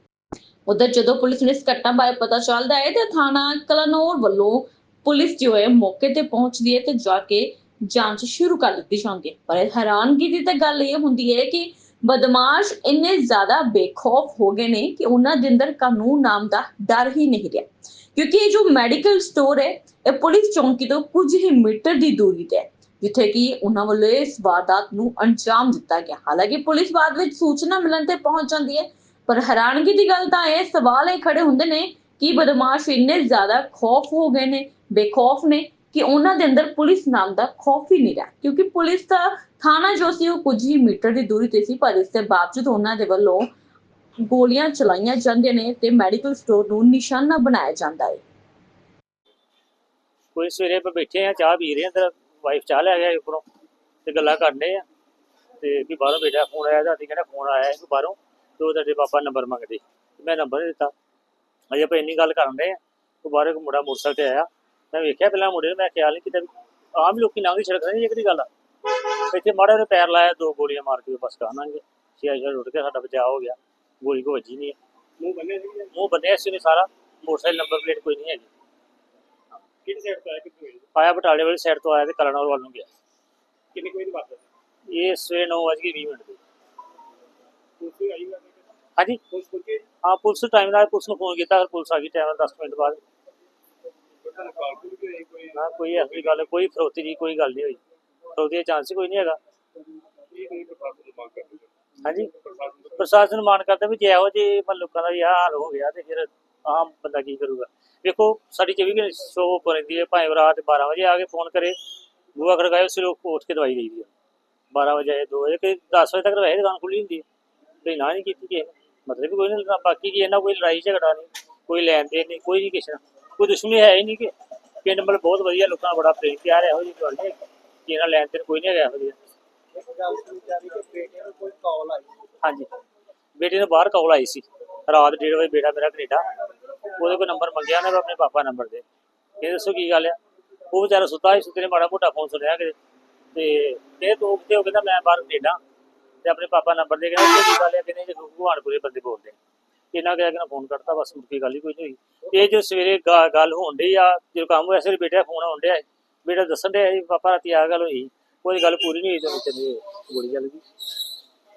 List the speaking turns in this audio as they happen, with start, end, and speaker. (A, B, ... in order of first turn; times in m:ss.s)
0:00.6-0:43.5 A
0:44.2-0:48.2 A
0:50.3-0:53.4 B
0:54.0-0:54.8 B
0:55.6-1:00.9 B
1:01.7-1:14.8 B
1:15.2-1:15.9 C
1:15.9-1:18.5 B
1:19.8-1:20.9 C
1:20.9-1:22.8 B
1:23.7-1:24.5 C
1:24.9-1:26.4 B
1:27.8-1:28.6 C
1:29.3-1:29.8 C
1:30.0-1:33.0 B
1:34.2-1:35.6 C
1:35.5-1:37.8 B
1:38.3-1:39.4 B
1:40.3-1:41.7 C
1:42.0-1:42.3 B
1:42.4-1:43.0 C
1:43.0-1:51.8 B
1:52.3-1:54.1 B
1:54.7-1:57.2 B
1:57.8-2:09.2 B
2:09.8-2:12.1 C
2:13.4-2:16.2 B
2:17.0-2:18.8 B
2:19.4-2:20.2 B
2:20.7-2:22.7 B
2:23.3-2:25.6 B
2:26.2-2:29.4 B
2:29.9-2:40.6 B